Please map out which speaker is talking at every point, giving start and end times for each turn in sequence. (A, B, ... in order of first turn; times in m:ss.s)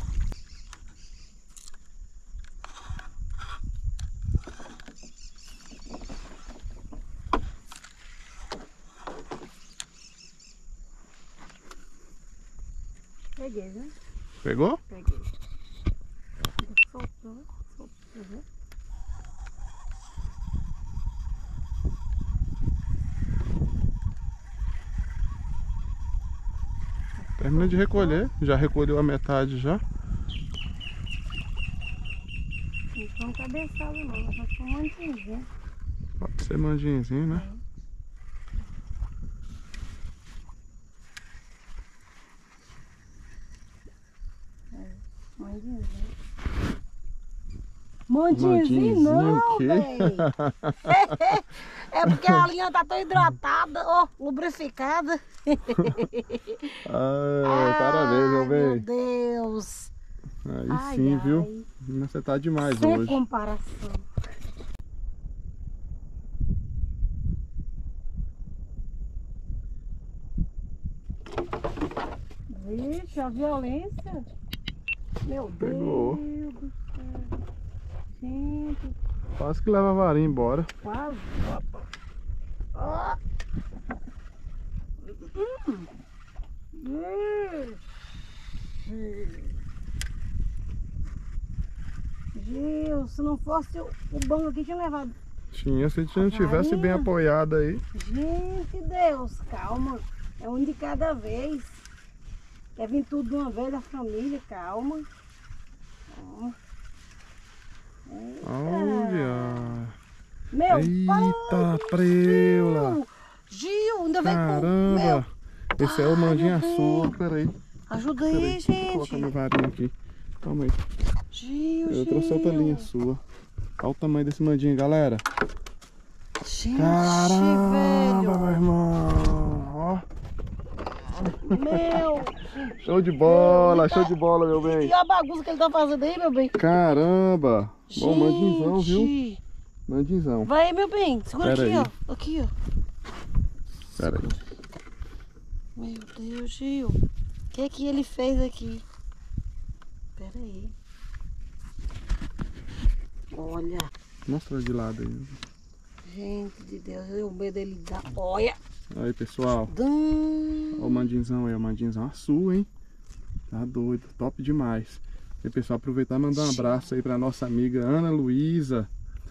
0:13.4-0:13.9 A
0:14.4-0:14.8 B
0:14.9-0:15.3 A
0:16.6-0:18.4 A
0:27.2-0:28.2 A
0:27.4-0:29.8 B
0:32.9-0:35.5 A
0:36.2-0:37.5 B
0:37.3-0:37.6 A
0:44.7-0:46.1 A
0:48.1-0:50.3 A
0:48.3-0:51.3 B
0:50.8-0:56.8 A
0:52.1-0:52.4 B
0:56.8-0:58.8 B
0:57.4-0:59.9 A
1:00.4-1:03.2 B
1:00.7-1:01.7 A
1:02.6-1:04.0 A
1:12.5-1:14.3 A
1:15.2-1:17.3 A
1:15.6-1:16.2 B
1:18.1-1:19.0 A
1:19.4-1:20.7 B
1:20.8-1:21.6 A
1:22.7-1:23.2 A
1:25.0-1:25.9 A
1:26.7-1:27.8 A
1:28.8-1:29.5 A
1:32.3-1:35.1 A
1:35.5-1:37.8 B
1:36.1-1:37.1 A
1:37.9-1:41.8 A
1:42.8-1:45.0 A
1:46.1-1:46.6 A
1:48.0-1:49.7 A
1:48.4-1:49.9 B
1:50.5-1:55.2 A
1:50.7-1:53.0 B
1:54.2-1:57.5 B
1:55.8-1:57.2 A
1:57.9-1:59.3 A
1:58.2-2:00.8 B
2:01.3-2:02.9 A
2:01.9-2:03.2 B
2:03.8-2:05.2 B
2:06.4-2:08.6 A
2:06.8-2:10.0 B
2:11.2-2:12.0 B
2:11.4-2:12.7 A
2:12.8-2:14.9 B
2:13.2-2:16.7 A
2:16.6-2:19.1 B
2:17.9-2:19.4 A
2:19.9-2:20.5 B
2:20.4-2:22.5 A
2:21.4-2:21.9 B
2:24.0-2:24.3 B
2:24.0-2:24.4 A
2:25.8-2:27.0 A
2:27.5-2:28.8 A
2:30.2-2:30.7 A
2:33.3-2:33.9 A
2:34.2-2:35.4 B
2:36.0-2:38.6 A
2:38.9-2:39.7 B
2:39.7-2:41.1 A
2:40.7-2:42.7 B
2:43.5-2:48.9 B
2:46.3-2:46.8 A